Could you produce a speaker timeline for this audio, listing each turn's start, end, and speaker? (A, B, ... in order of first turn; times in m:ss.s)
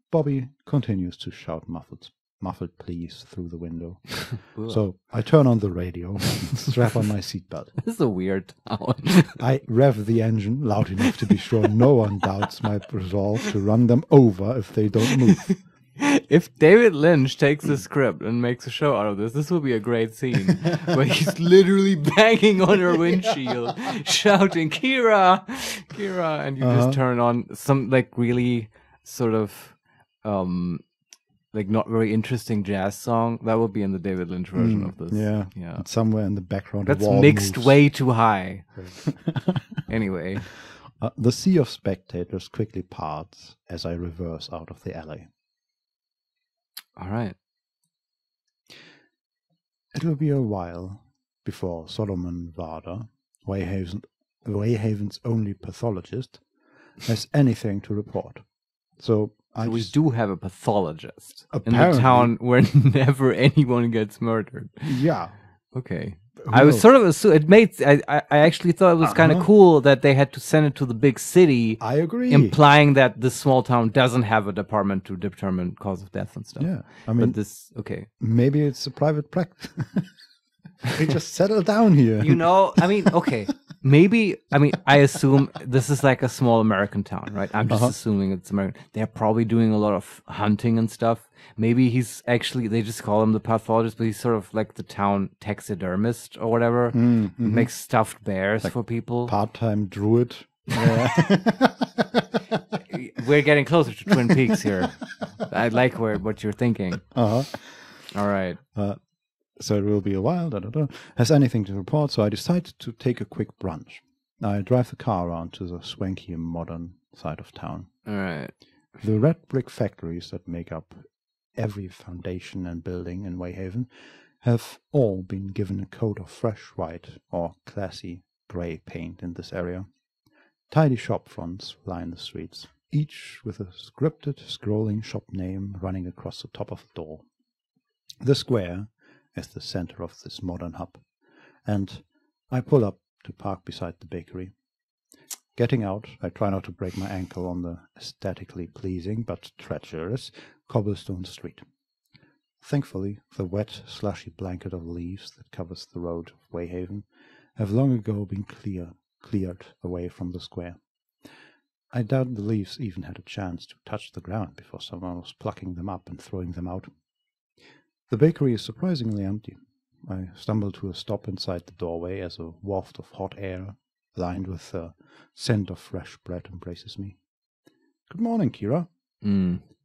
0:00.1-0:07.8 A
0:04.3-0:04.8 B
0:07.8-0:09.4 B
0:09.4-0:15.6 A
0:16.0-0:30.8 B
0:26.6-0:27.0 A
0:31.5-0:35.8 B
0:34.6-0:37.8 A
0:36.8-0:38.8 B
0:38.8-0:39.8 A
0:39.9-0:40.5 B
0:40.5-0:45.2 A
0:47.0-0:47.3 B
0:49.9-0:56.4 A
0:57.0-0:59.9 A
0:59.6-1:05.0 B
1:01.5-1:02.3 A
1:04.8-1:05.3 A
1:05.7-1:18.1 B
1:06.4-1:06.8 A
1:09.0-1:09.5 A
1:11.8-1:12.6 A
1:16.6-1:17.4 A
1:18.1-1:20.1 A
1:20.9-1:23.1 A
1:22.2-1:39.3 B
1:27.7-1:27.9 A
1:36.9-1:37.7 A
1:38.6-1:42.6 A
1:40.8-1:41.0 B
1:42.9-1:47.1 B
1:47.1-1:48.1 A
1:48.1-1:48.6 B
1:49.5-1:57.9 A
1:58.0-1:58.6 B
1:59.0-2:09.9 A
2:10.7-2:17.2 A
2:18.2-2:21.1 A
2:21.6-2:24.5 A
2:25.5-2:31.6 A
2:32.6-2:40.8 A
2:41.9-2:46.9 A
2:48.1-2:57.2 A
2:58.1-2:58.9 A
2:59.2-2:59.6 B